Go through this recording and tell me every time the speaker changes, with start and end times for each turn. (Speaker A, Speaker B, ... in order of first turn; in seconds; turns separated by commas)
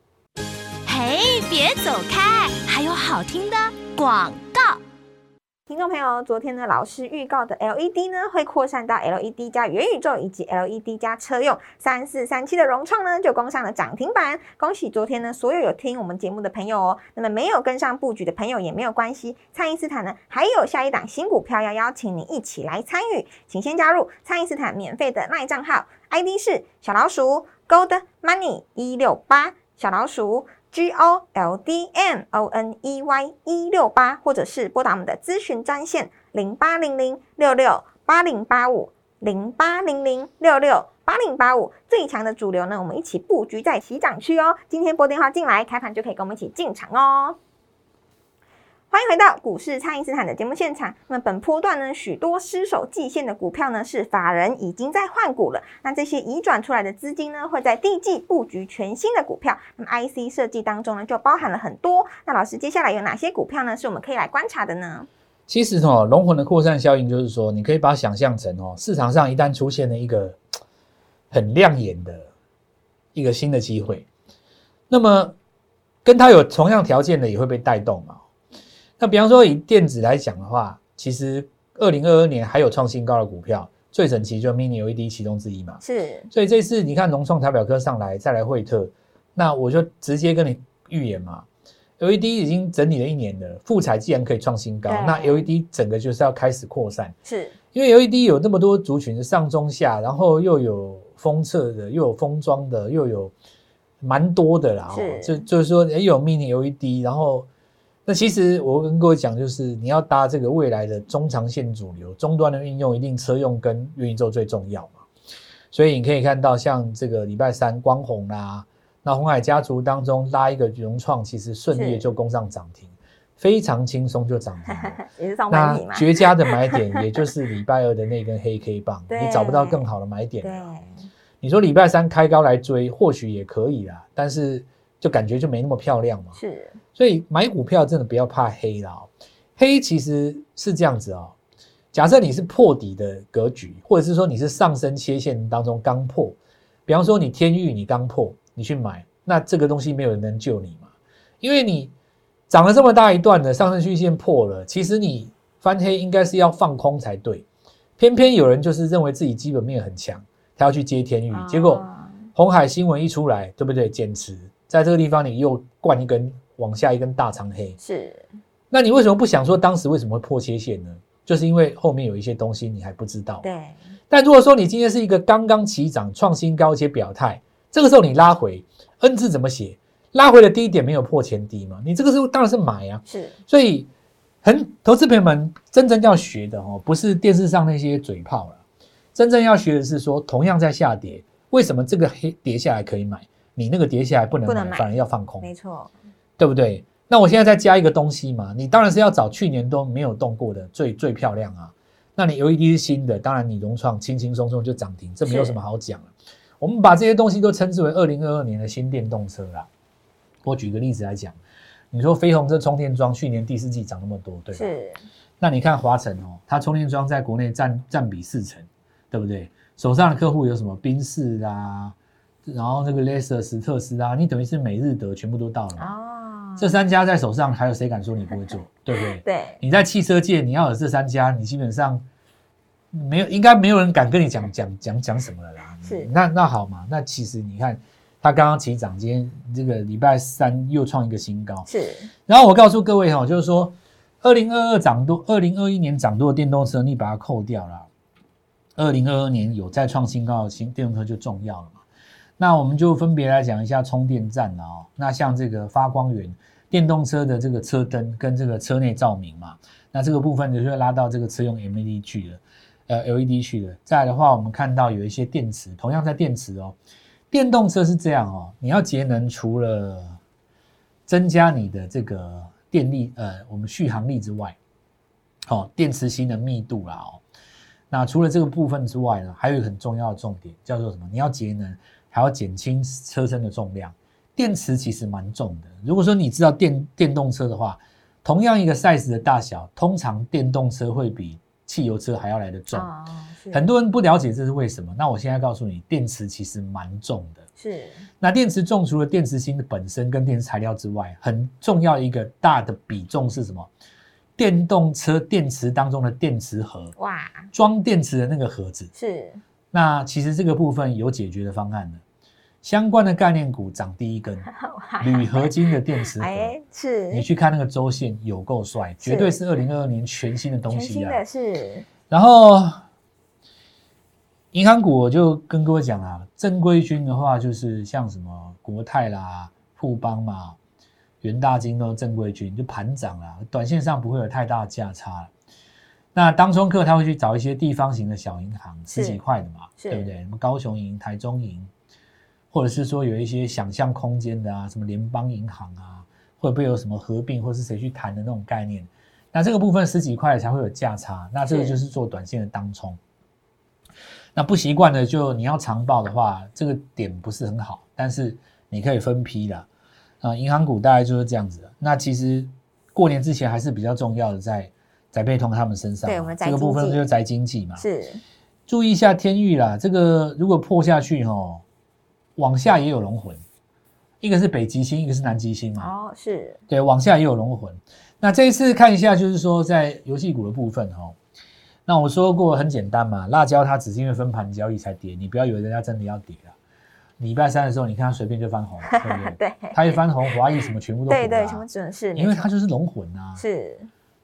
Speaker A: 0.9-4.7, Speaker B: 5.7-47.4, Speaker B: 48.9-65.1, Speaker C: 65.5-70.4, Speaker C: 71.3-72.3, Speaker C: 73.1-74.0, Speaker C: 74.9-75.3, Speaker C: 76.0-78.2, Speaker C: 79.0-91.4, Speaker B: 85.8-86.3, Speaker C: 92.0-97.1, Speaker B: 94.8-95.5, Speaker B: 97.2-97.5, Speaker C: 97.7-103.3, Speaker C: 104.0-107.5, Speaker B: 104.9-105.5, Speaker C: 108.0-115.0, Speaker C: 115.7-130.7, Speaker B: 121.7-122.0, Speaker B: 125.0-126.7, Speaker B: 129.1-129.8, Speaker B: 130.4-131.0, Speaker C: 131.4-136.4, Speaker B: 136.3-136.8, Speaker C: 136.9-141.3, Speaker C: 141.9-150.9, Speaker C: 151.4-151.9, Speaker C: 152.5-157.4, Speaker C: 158.0-167.8, Speaker B: 161.3-162.2, Speaker B: 167.8-168.3, Speaker C: 168.7-173.4, Speaker B: 173.4-173.8, Speaker C: 174.1-183.9, Speaker B: 183.1-183.3, Speaker C: 184.4-188.6, Speaker C: 189.1-195.5, Speaker B: 194.4-195.9, Speaker C: 196.4-209.7, Speaker B: 205.2-205.6, Speaker C: 210.4-211.4, Speaker C: 211.9-214.7, Speaker B: 214.5-215.0, Speaker C: 215.4-221.9, Speaker C: 222.4-225.9, Speaker B: 225.8-226.7, Speaker C: 226.6-232.0, Speaker B: 228.9-229.6, Speaker C: 232.9-241.7, Speaker B: 235.8-236.1, Speaker B: 241.6-242.1, Speaker C: 242.3-247.9, Speaker C: 248.8-251.8, Speaker C: 252.4-266.8, Speaker C: 267.3-270.2, Speaker C: 271.1-274.6, Speaker C: 275.5-277.2, Speaker C: 277.9-292.9, Speaker B: 292.7-293.7, Speaker C: 293.5-297.4, Speaker B: 297.6-298.0, Speaker C: 298.2-303.7, Speaker C: 304.4-306.9, Speaker B: 306.9-307.5, Speaker C: 307.5-308.9, Speaker B: 308.9-309.4, Speaker C: 309.7-312.0, Speaker C: 312.6-314.5, Speaker B: 314.5-315.5, Speaker C: 315.0-316.5, Speaker B: 316.1-317.3, Speaker C: 317.1-321.2, Speaker B: 319.0-319.4, Speaker B: 320.7-321.9, Speaker C: 322.1-322.8, Speaker C: 324.5-330.6, Speaker C: 331.2-335.3, Speaker C: 336.1-341.7, Speaker B: 338.9-339.2, Speaker B: 339.8-340.1, Speaker C: 342.5-353.0, Speaker B: 351.5-351.8, Speaker C: 354.4-359.6, Speaker C: 360.2-367.8, Speaker B: 366.0-367.0, Speaker B: 367.8-368.2, Speaker C: 368.7-371.6, Speaker C: 372.4-373.4, Speaker C: 374.2-375.9, Speaker B: 375.8-376.6, Speaker C: 376.7-381.1, Speaker C: 381.9-386.5, Speaker C: 387.2-391.6, Speaker B: 388.9-390.0, Speaker B: 391.1-392.5, Speaker C: 392.1-393.4, Speaker B: 393.4-393.9